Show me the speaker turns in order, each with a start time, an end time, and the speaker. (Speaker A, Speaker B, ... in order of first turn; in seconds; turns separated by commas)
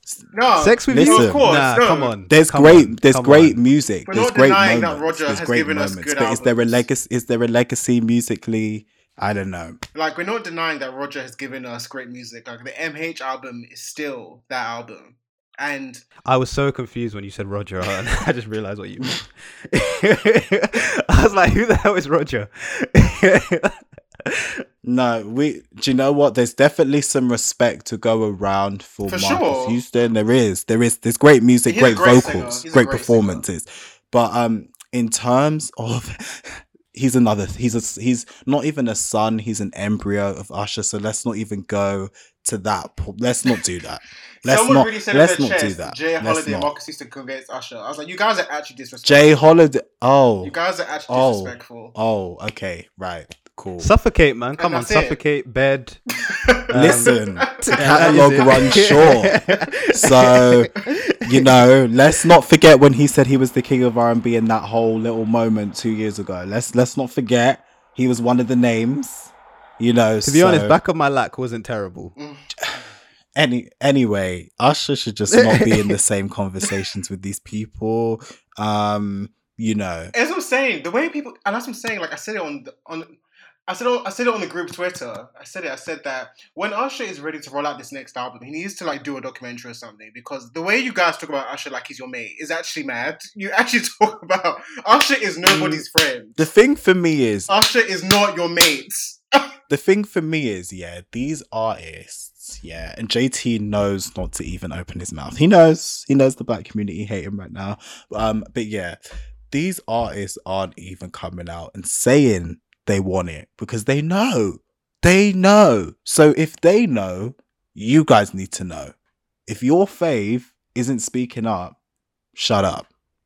Speaker A: 0.3-2.1, Speaker B: 0.6-3.6, Speaker C: 0.9-1.5, Speaker C: 2.3-9.8, Speaker A: 4.0-6.8, Speaker A: 9.9-16.0, Speaker B: 16.2-24.6, Speaker C: 24.8-46.7, Speaker A: 29.1-29.8, Speaker A: 31.7-33.4, Speaker A: 44.4-49.4, Speaker C: 49.0-50.5, Speaker A: 50.4-51.9, Speaker C: 51.1-53.9, Speaker B: 53.8-56.0, Speaker A: 54.6-55.2, Speaker A: 56.3-59.6, Speaker B: 56.7-61.6, Speaker C: 56.7-59.4, Speaker C: 59.9-70.8, Speaker B: 70.2-72.1, Speaker A: 72.2-72.5, Speaker C: 73.3-80.1, Speaker B: 75.3-75.9, Speaker A: 80.1-83.2, Speaker A: 83.7-96.4, Speaker C: 95.4-95.8, Speaker C: 96.4-97.5, Speaker A: 97.5-99.4, Speaker C: 99.7-109.0, Speaker C: 109.5-118.9, Speaker C: 119.5-121.8, Speaker C: 122.3-122.9